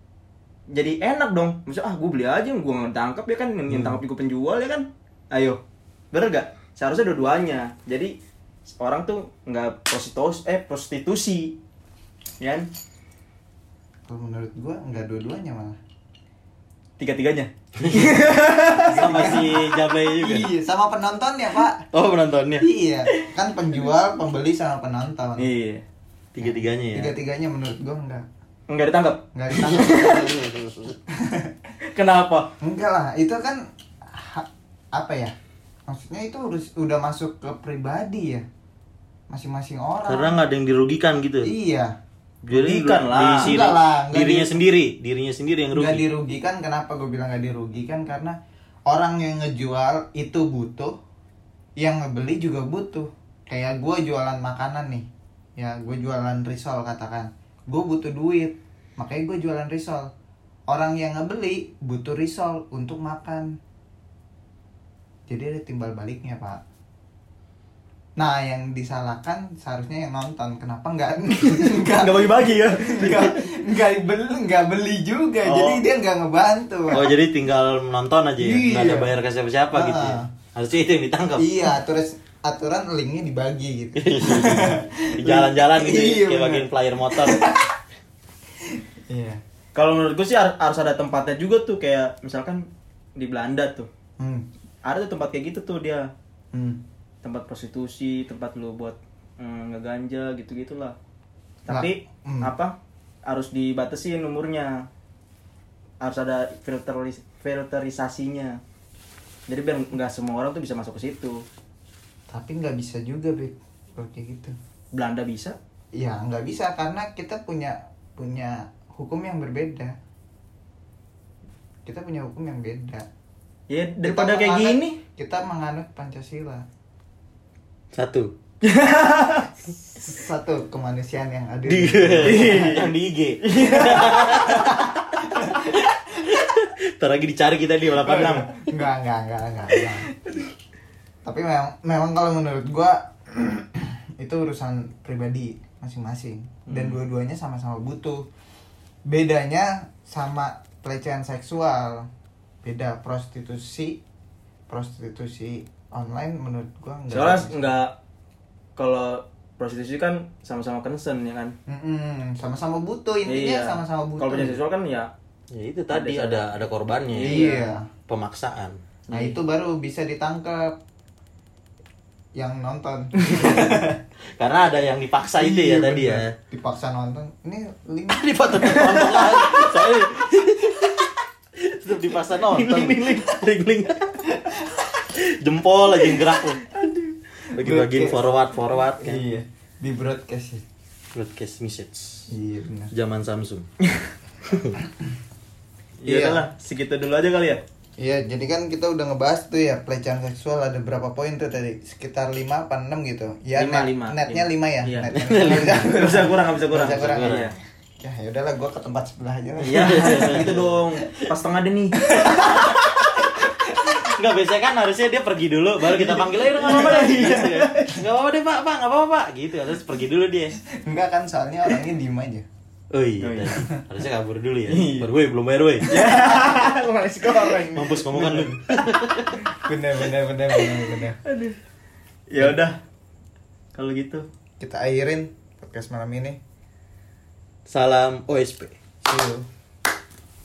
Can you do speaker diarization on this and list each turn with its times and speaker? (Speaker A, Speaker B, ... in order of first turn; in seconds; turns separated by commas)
Speaker A: 0.7-5.6, Speaker B: 3.7-4.0, Speaker A: 6.1-8.2, Speaker A: 8.7-11.6, Speaker A: 12.4-12.7, Speaker C: 14.1-15.8, Speaker A: 17.0-19.4, Speaker B: 17.8-18.2, Speaker B: 18.8-20.5, Speaker C: 18.9-21.9, Speaker B: 21.9-22.7, Speaker C: 22.6-25.5, Speaker A: 25.4-25.8, Speaker B: 26.3-27.2, Speaker C: 26.4-28.2, Speaker A: 28.7-30.3, Speaker C: 29.3-30.3, Speaker B: 29.8-30.9, Speaker C: 31.1-31.6, Speaker A: 31.8-32.5, Speaker C: 32.6-35.3, Speaker C: 35.9-38.5, Speaker C: 39.3-40.4, Speaker B: 40.0-41.5, Speaker C: 41.4-41.9, Speaker B: 42.5-46.0, Speaker A: 42.5-43.5, Speaker C: 43.4-44.5, Speaker C: 45.7-48.4, Speaker C: 48.9-50.9, Speaker C: 51.8-60.1, Speaker C: 60.7-63.6, Speaker C: 65.3-66.6, Speaker C: 68.2-77.1, Speaker A: 71.5-73.5, Speaker A: 75.4-75.8, Speaker B: 76.9-81.6, Speaker C: 78.4-79.1, Speaker C: 79.7-80.3, Speaker C: 81.4-87.7, Speaker B: 83.9-87.5, Speaker C: 88.7-89.4, Speaker A: 89.7-93.9, Speaker C: 94.2-94.5, Speaker A: 94.8-96.1, Speaker C: 96.5-96.8, Speaker A: 97.2-101.0, Speaker A: 101.7-104.9, Speaker C: 101.7-102.5, Speaker A: 106.0-108.6, Speaker A: 109.5-111.4, Speaker C: 112.3-114.5, Speaker A: 114.9-115.6, Speaker C: 115.9-119.9, Speaker C: 121.8-123.1, Speaker A: 123.7-125.0, Speaker C: 124.0-126.7, Speaker B: 127.9-128.3, Speaker A: 128.6-129.5, Speaker C: 130.0-132.8, Speaker B: 131.7-138.5, Speaker A: 132.2-134.7, Speaker C: 134.4-135.8, Speaker A: 137.9-138.5, Speaker C: 138.0-140.1, Speaker C: 141.2-148.3, Speaker A: 146.7-147.0, Speaker C: 149.1-152.1, Speaker C: 152.6-154.0, Speaker C: 154.7-157.7, Speaker A: 157.1-157.9, Speaker A: 158.8-161.5, Speaker C: 161.7-164.6, Speaker A: 163.2-165.1, Speaker B: 165.5-168.8, Speaker A: 165.9-166.4, Speaker A: 167.1-167.7, Speaker C: 167.2-167.9, Speaker A: 169.1-169.4, Speaker C: 169.1-170.8, Speaker C: 172.3-174.0, Speaker B: 173.3-173.7, Speaker B: 174.4-176.3, Speaker C: 175.4-179.1, Speaker B: 178.1-184.2, Speaker A: 178.6-179.4, Speaker A: 182.4-183.4, Speaker C: 184.2-184.9, Speaker B: 185.1-186.6, Speaker A: 186.6-187.1, Speaker B: 187.5-189.2, Speaker C: 187.5-188.2, Speaker C: 188.8-190.6, Speaker B: 191.1-192.3, Speaker C: 192.3-192.9, Speaker B: 192.9-193.7, Speaker B: 194.4-194.8, Speaker C: 194.8-195.1, Speaker A: 196.0-197.6, Speaker C: 196.1-196.4, Speaker C: 198.0-210.7, Speaker A: 203.6-205.1, Speaker B: 205.1-206.0, Speaker A: 205.7-207.5, Speaker B: 206.7-207.5, Speaker A: 209.6-212.1, Speaker B: 209.7-211.2, Speaker C: 212.0-214.1, Speaker B: 212.2-220.6, Speaker A: 215.9-217.8, Speaker C: 216.6-217.8, Speaker C: 220.7-222.4, Speaker B: 222.9-226.1, Speaker A: 223.2-223.6, Speaker A: 224.7-225.1, Speaker A: 225.9-228.9, Speaker C: 226.0-226.6, Speaker B: 227.7-229.4, Speaker C: 229.6-231.2, Speaker A: 230.6-231.6, Speaker A: 232.3-232.8, Speaker A: 233.7-234.2, Speaker C: 234.6-236.4, Speaker B: 237.7-238.8, Speaker C: 239.0-239.5